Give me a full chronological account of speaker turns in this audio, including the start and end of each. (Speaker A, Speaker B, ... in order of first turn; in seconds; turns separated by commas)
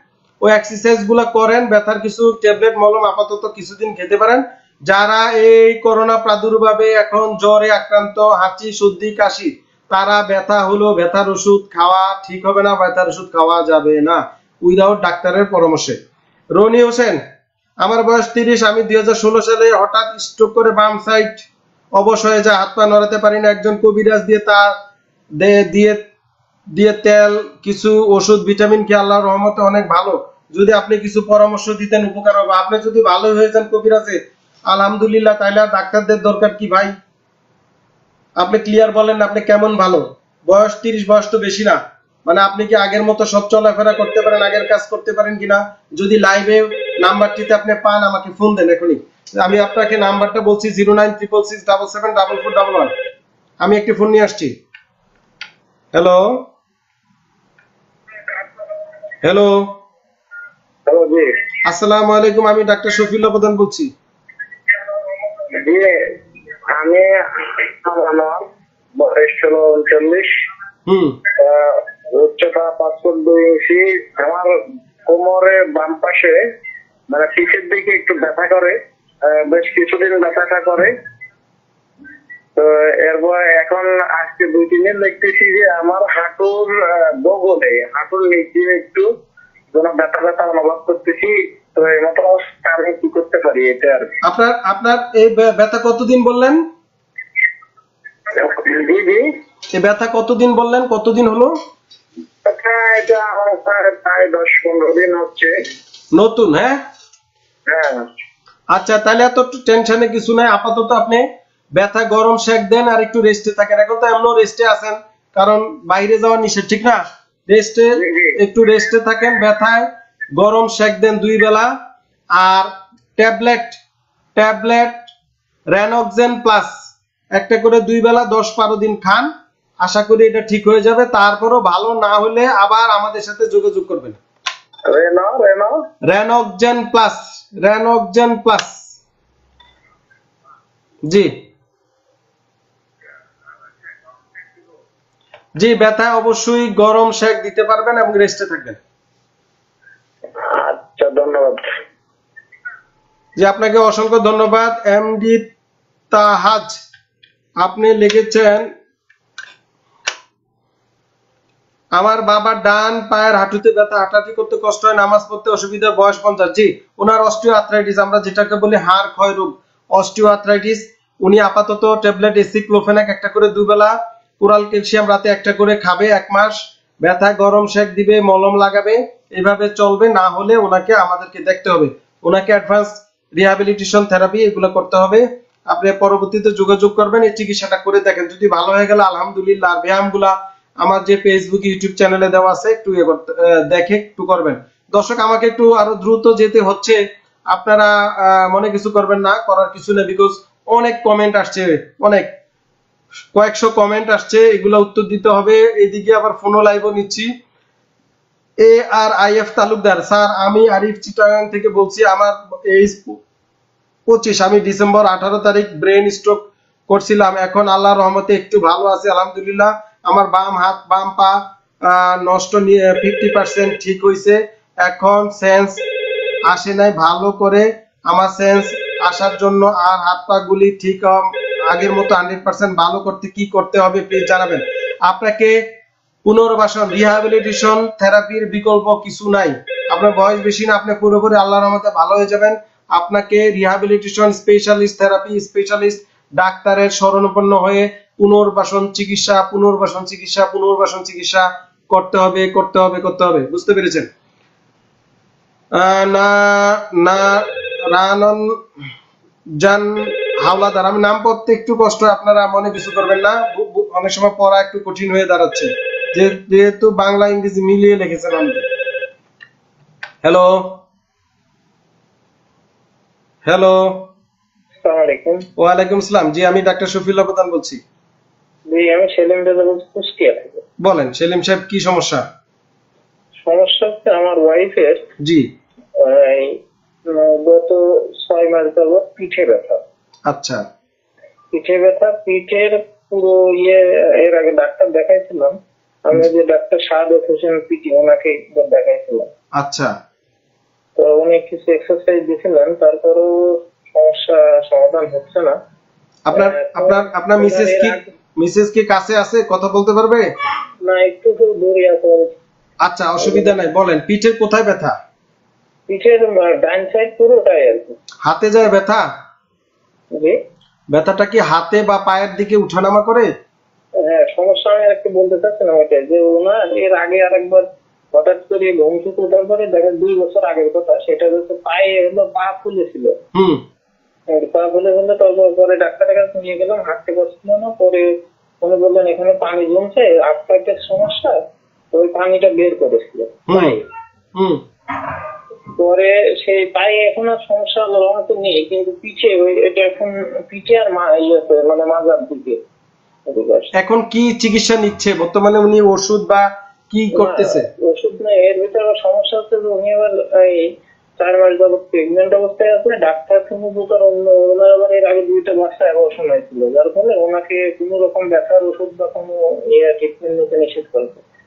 Speaker A: 0.4-16.0, Speaker A: 16.6-17.2, Speaker A: 17.8-21.4, Speaker A: 22.0-24.7, Speaker A: 25.4-26.0, Speaker A: 26.7-36.9, Speaker A: 38.4-52.9, Speaker A: 53.6-54.5, Speaker A: 55.9-56.5, Speaker A: 59.2-59.8, Speaker B: 60.9-61.3, Speaker A: 61.6-63.9, Speaker B: 65.6-65.9, Speaker B: 67.8-68.4, Speaker B: 69.0-70.3, Speaker A: 70.9-71.2, Speaker B: 71.4-74.5, Speaker B: 75.1-76.4, Speaker B: 77.1-78.7, Speaker B: 79.3-80.9, Speaker B: 82.6-86.7, Speaker B: 87.3-89.0, Speaker B: 89.7-94.0, Speaker A: 94.2-96.6, Speaker B: 98.3-99.2, Speaker A: 99.7-101.5, Speaker B: 102.5-105.5, Speaker A: 106.1-106.8, Speaker B: 107.7-108.0, Speaker A: 108.7-121.7, Speaker A: 122.3-123.8, Speaker A: 124.3-125.1, Speaker A: 125.7-126.7, Speaker A: 127.3-129.3, Speaker A: 129.8-134.2, Speaker B: 134.9-135.7, Speaker A: 136.1-138.8, Speaker A: 145.6-148.8, Speaker B: 150.6-151.6, Speaker A: 153.4-155.4, Speaker A: 156.1-156.8, Speaker A: 157.6-158.7, Speaker A: 161.9-197.0, Speaker A: 197.5-202.3, Speaker A: 203.3-207.3, Speaker A: 208.6-213.2, Speaker A: 214.1-225.8, Speaker A: 226.5-235.6, Speaker A: 236.2-254.1, Speaker A: 255.7-258.6, Speaker A: 259.6-268.6, Speaker A: 270.2-270.8, Speaker A: 273.4-274.1, Speaker C: 274.8-275.5, Speaker A: 275.6-277.8, Speaker C: 278.7-280.6, Speaker A: 280.8-282.2, Speaker C: 283.4-285.1, Speaker A: 285.2-285.5, Speaker C: 286.0-289.8, Speaker A: 290.3-290.6, Speaker C: 291.5-299.3, Speaker A: 299.6-299.9, Speaker C: 300.9-305.6, Speaker A: 306.3-310.3, Speaker C: 306.3-308.1, Speaker C: 310.8-312.3, Speaker A: 312.8-314.9, Speaker C: 313.2-313.5, Speaker C: 315.9-317.9, Speaker A: 318.2-319.1, Speaker A: 320.9-323.3, Speaker C: 324.0-333.1, Speaker A: 333.3-333.6, Speaker C: 334.3-343.9, Speaker A: 343.5-343.8, Speaker A: 344.3-344.6, Speaker C: 345.8-352.6, Speaker C: 353.3-353.7, Speaker A: 353.7-357.7, Speaker C: 357.1-371.2